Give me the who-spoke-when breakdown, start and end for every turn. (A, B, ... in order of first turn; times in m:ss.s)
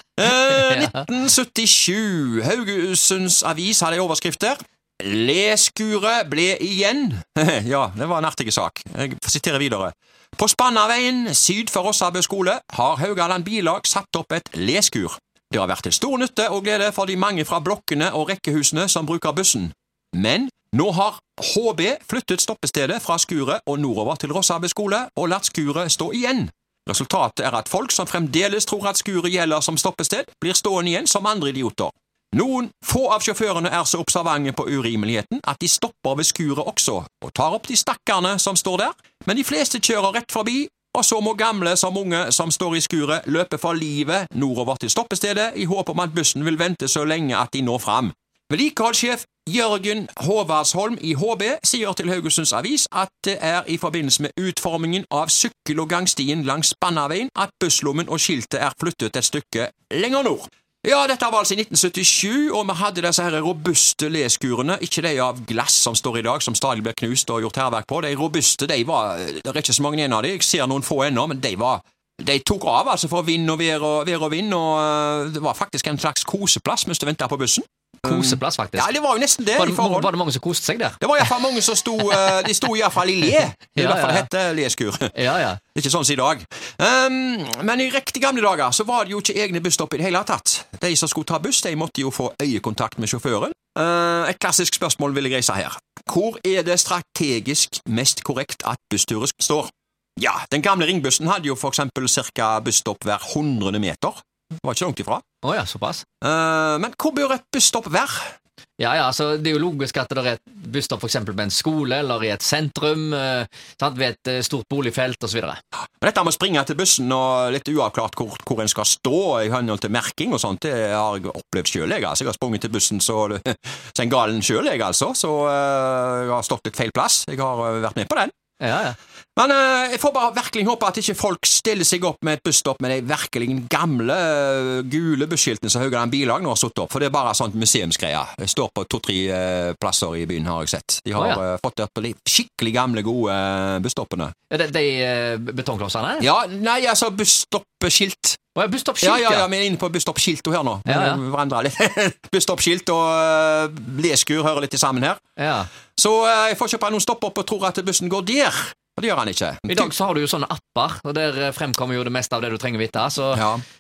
0:00.2-1:20.1 A
1:18.0-1:18.9 B
1:19.6-1:21.3 B
1:21.0-1:25.2 A
1:23.8-1:24.3 B
1:25.1-1:25.6 B
1:25.7-1:45.2 A
1:45.4-1:46.0 B
1:46.2-1:48.4 A
1:48.8-1:55.6 B
1:56.0-2:08.3 A
2:08.6-2:09.0 B
2:09.4-2:24.3 A
2:21.2-2:21.4 B
2:24.5-2:26.3 B
2:26.2-2:28.4 A
2:28.6-2:29.5 B
2:29.0-2:35.2 A
2:30.9-2:31.2 B
2:35.4-2:35.7 B
2:36.0-2:39.9 A
2:39.7-2:43.5 B
2:43.3-2:43.6 A